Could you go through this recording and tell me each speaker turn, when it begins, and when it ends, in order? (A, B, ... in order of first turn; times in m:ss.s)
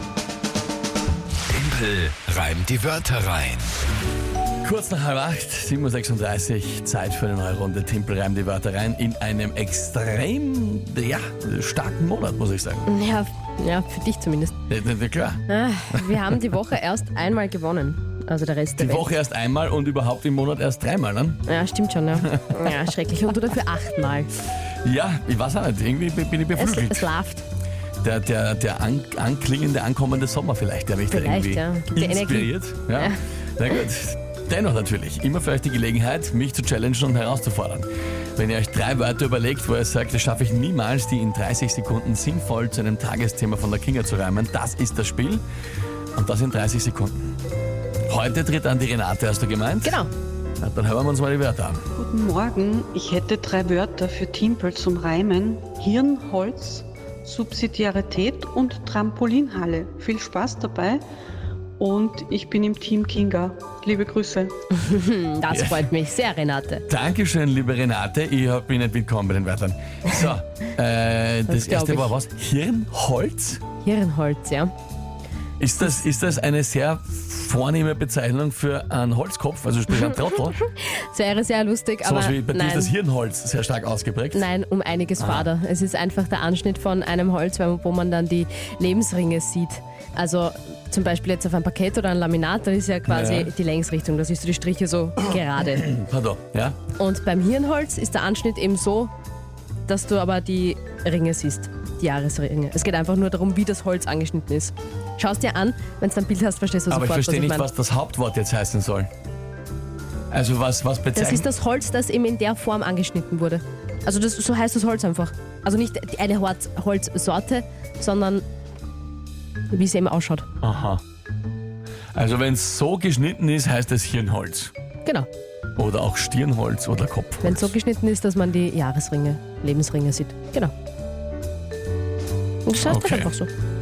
0:01.5-0:03.6 A
0:04.6-0:12.9 B
0:12.9-0:14.5 C
0:14.7-0:16.3 B
0:15.5-0:19.1 C
0:18.8-0:21.4 B
0:21.5-0:24.3 C
0:22.2-0:22.9 B
0:24.8-0:27.1 B
0:26.6-0:27.4 C
0:28.0-0:45.4 B
0:31.1-0:33.2 C
0:46.2-0:47.4 B
0:48.1-0:50.0 B
0:49.8-0:50.1 C
0:50.6-0:51.8 B
0:52.0-1:01.0 D
1:01.8-1:04.6 D
1:04.7-1:06.8 C
1:05.5-1:05.9 B
1:06.9-1:13.6 B
1:11.5-1:12.1 C
1:13.8-1:14.7 C
1:15.6-1:20.6 B
1:20.1-1:22.9 C
1:22.0-1:24.5 B
1:24.3-1:35.9 C
1:25.2-1:25.5 B
1:33.1-1:33.5 B
1:35.7-1:36.8 B
1:37.0-1:39.1 C
1:39.9-1:47.7 C
1:46.9-1:49.1 B
1:50.3-1:51.5 B
1:51.2-1:58.4 C
1:59.7-2:00.5 C
2:00.6-2:01.0 B
2:02.1-2:04.7 B
2:05.8-2:07.7 B
2:07.4-2:10.7 C
2:12.7-2:13.5 C
2:12.8-2:13.3 B